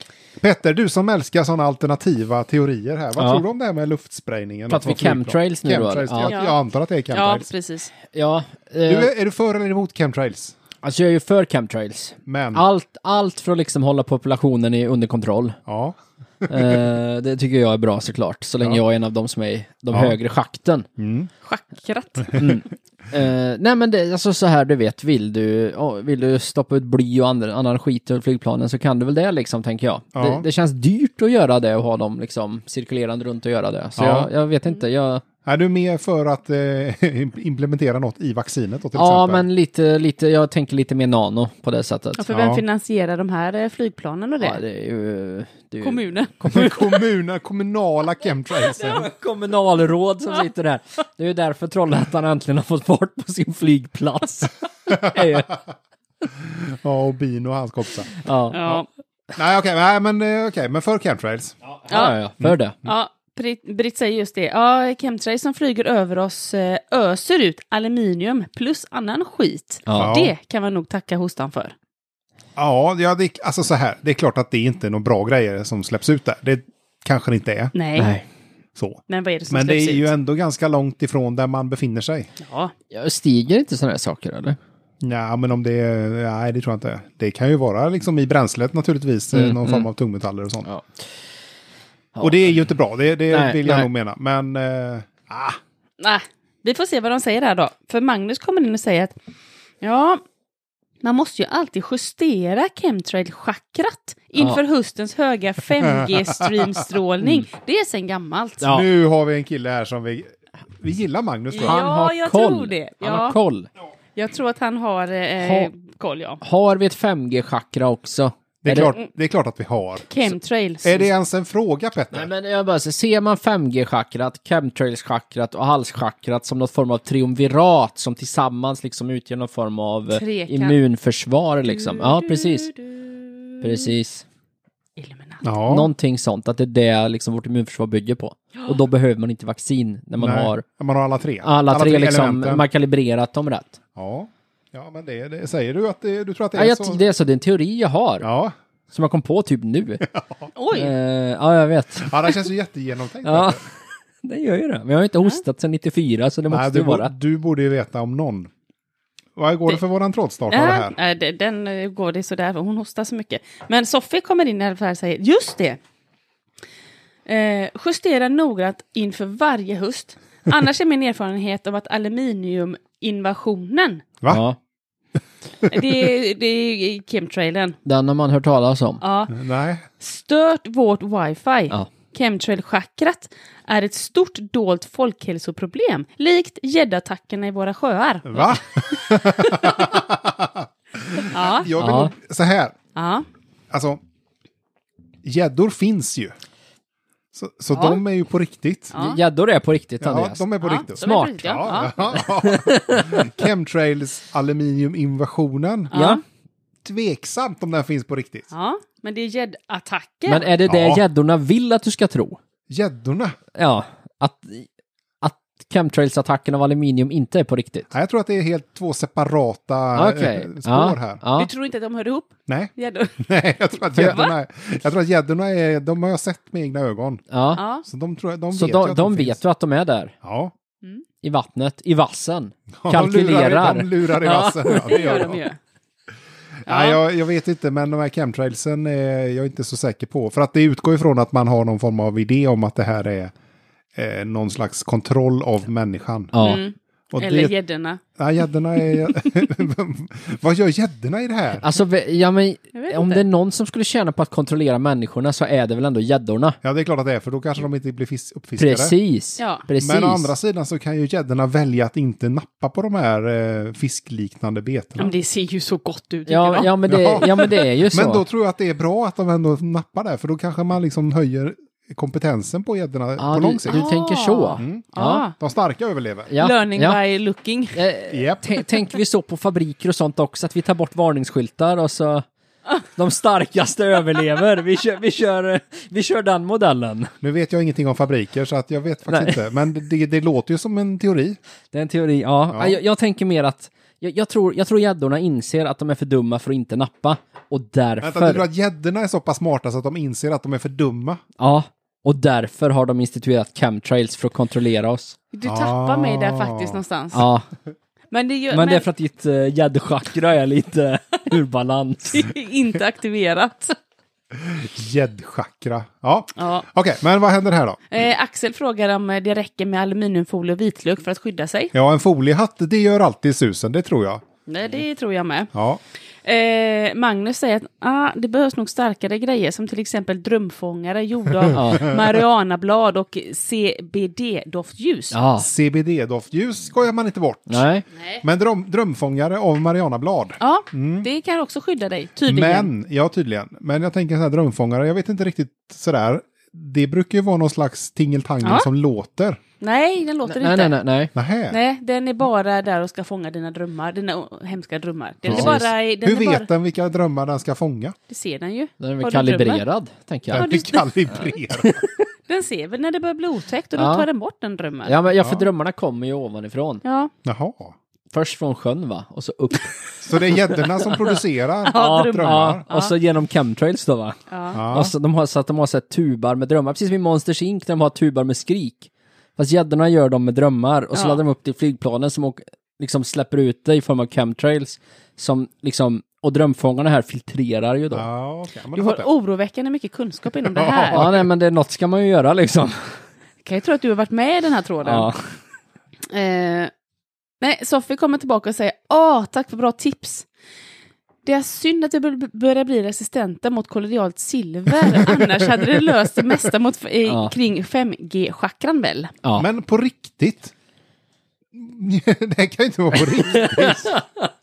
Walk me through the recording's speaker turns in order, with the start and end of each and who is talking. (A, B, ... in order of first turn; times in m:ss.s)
0:00.4-0:07.5 A
0:03.2-0:03.4 B
0:04.7-0:06.3 B
0:06.3-0:06.6 C
0:07.1-0:07.9 C
0:08.0-0:09.1 B
0:08.9-0:10.6 A
0:10.8-0:15.6 B
0:12.3-0:12.6 A
0:15.7-0:16.8 A
0:16.5-0:20.9 B
0:21.0-0:21.3 A
0:21.4-0:22.4 C
0:22.4-0:35.2 B
0:30.2-0:30.4 A
0:34.0-0:34.3 A
0:35.4-0:39.4 A
0:39.0-0:42.2 B
0:42.2-0:44.6 C
0:42.3-0:42.6 A
0:44.4-0:46.7 B
0:45.8-0:46.8 C
0:46.4-0:49.1 A
0:48.7-0:55.6 B
0:56.4-0:58.1 A
0:58.2-0:58.7 B
0:58.5-0:58.9 C
0:59.4-1:01.6 A
1:01.8-1:02.8 B
1:01.9-1:02.2 C
1:02.8-1:11.7 C
1:09.9-1:10.2 B
1:10.0-1:10.3 A
1:12.6-1:17.7 A
1:17.8-1:18.1 C
1:18.0-1:18.3 B
1:18.8-1:22.3 A
1:19.1-1:20.1 C
1:22.4-1:22.7 C
1:22.9-1:24.6 B
1:25.0-1:30.7 A
1:29.3-1:29.9 B
1:30.7-1:31.0 B
1:32.2-1:32.5 B
1:32.2-1:35.6 A
1:33.3-1:33.9 B
1:36.0-1:39.1 C
1:39.8-1:40.2 C
1:41.0-1:48.7 C
1:45.9-1:46.6 A
1:47.2-1:47.5 B
1:48.6-1:51.9 A
1:51.5-1:53.4 C
1:51.6-1:53.7 B
1:54.2-1:56.4 C
1:55.4-1:55.7 B
1:56.4-1:59.0 B
1:58.6-2:02.3 A
2:00.1-2:01.1 C
2:02.1-2:12.7 B
2:10.1-2:10.8 C
2:11.7-2:13.6 C
2:13.6-2:14.2 B
2:15.0-2:15.4 C
2:15.4-2:15.9 A
2:15.7-2:20.6 B
2:20.2-2:22.7 A
2:21.4-2:23.8 B
2:24.0-2:27.0 A
2:26.6-2:28.3 B
2:28.2-2:28.6 A
2:28.9-2:30.0 B
2:30.0-2:30.5 A
2:30.6-2:30.9 C
2:30.7-2:32.1 B
2:32.0-2:33.6 A
2:33.2-2:33.6 B
2:34.2-2:37.1 B
2:36.5-2:38.5 A
2:39.4-2:41.0 A
2:40.5-2:45.8 C
2:47.3-2:54.0 C
2:54.3-2:54.6 B
2:55.7-2:57.8 C
2:57.8-2:59.0 B
2:59.0-2:59.4 C
2:59.3-2:59.9 A
3:00.0-3:08.6 C
3:08.3-3:12.8 A
3:11.3-3:11.7 C
3:11.8-3:12.1 B
3:13.0-3:13.2 C
3:13.7-3:14.0 A
3:15.2-3:16.4 A
3:17.3-3:18.9 A
3:17.7-3:18.0 C
3:18.9-3:19.2 C
3:19.0-3:20.5 B
3:20.0-3:25.9 A
3:20.6-3:22.1 C
3:21.0-3:21.6 B
3:22.1-3:23.4 B
3:25.9-3:26.2 C
3:25.9-3:26.2 B
3:26.8-3:28.5 A
3:28.5-3:30.5 C
3:30.3-3:32.4 B
3:30.7-3:31.0 A
3:32.7-3:33.4 A
3:33.6-3:34.7 B
3:35.2-3:37.9 B
3:37.9-3:41.2 A
3:40.0-3:41.5 B
3:41.4-3:43.2 C
3:42.5-3:47.2 A
3:43.9-3:44.2 B
3:44.0-3:44.3 C
3:47.3-3:47.6 B
3:47.6-3:47.8 C
3:47.8-3:49.4 A
3:48.5-3:50.2 B
3:50.2-3:50.5 A
3:51.2-3:55.1 B
3:52.8-3:55.5 A
3:54.8-3:55.6 C
3:56.7-4:03.3 A
3:56.7-3:57.0 C
4:04.0-4:06.5 A
4:06.3-4:06.6 B
4:06.4-4:08.0 C
4:07.1-4:07.5 A
4:08.2-4:11.6 A
4:11.6-4:16.6 B
4:12.7-4:13.2 C
4:16.6-4:19.0 A
4:18.6-4:20.3 B
4:19.4-4:19.6 C
4:19.8-4:25.1 A
4:25.0-4:27.5 C
4:26.3-4:28.2 B
4:26.9-4:33.8 A
4:33.2-4:35.2 B
4:33.7-4:35.4 C
4:34.6-4:36.3 A
4:36.3-4:37.0 B
4:36.4-4:37.8 C
4:37.7-4:42.2 B
4:38.1-4:38.5 A
4:43.0-4:47.1 B
4:47.2-4:51.4 A
4:49.1-4:49.4 B
4:51.7-4:58.4 B
4:52.5-4:52.8 A
4:58.0-5:01.2 A
5:01.4-5:05.2 B
5:05.3-5:07.2 C
5:05.4-5:06.8 A
5:07.1-5:07.5 B
5:08.1-5:08.8 C
5:08.5-5:12.3 B
5:12.1-5:13.8 C
5:14.3-5:17.8 A
5:16.4-5:16.6 C
5:17.9-5:21.7 C
5:21.7-5:24.2 A
5:24.5-5:25.5 C
5:25.5-5:25.8 A
5:26.2-5:35.2 C
5:31.5-5:32.0 A
5:31.5-5:32.0 B
5:35.1-5:35.5 B
5:35.4-5:37.7 A
5:37.5-5:37.8 B
5:38.2-5:41.1 A
5:40.4-5:42.7 C
5:42.3-5:49.4 A
5:49.6-5:50.8 C
5:50.3-5:51.1 B
5:51.2-5:51.6 A
5:51.5-5:56.5 C
5:55.2-5:58.0 A
5:55.3-5:55.6 B
5:58.1-5:59.6 C
5:58.8-6:00.5 B
6:00.3-6:01.8 A
6:00.3-6:00.9 C
6:01.6-6:02.0 B
6:02.3-6:05.0 C
6:03.8-6:04.1 B
6:04.8-6:06.8 B
6:05.2-6:05.5 A
6:06.8-6:07.1 C
6:07.2-6:07.7 A
6:08.1-6:10.9 B
6:10.0-6:12.6 A
6:11.6-6:12.9 C
6:11.7-6:28.1 B
6:14.3-6:14.6 C
6:14.5-6:14.9 A
6:20.9-6:21.2 C
6:27.9-6:29.1 A
6:28.7-6:31.1 C
6:30.5-6:31.3 A
6:30.9-6:33.0 B
6:33.4-6:35.1 C
6:34.8-6:35.2 B
6:36.1-6:36.7 C
6:37.4-6:40.3 C
6:41.2-6:49.1 C
6:44.9-6:45.7 A
6:47.1-6:47.3 B
6:49.4-6:50.5 A
6:51.5-6:54.0 A
6:53.3-6:54.3 B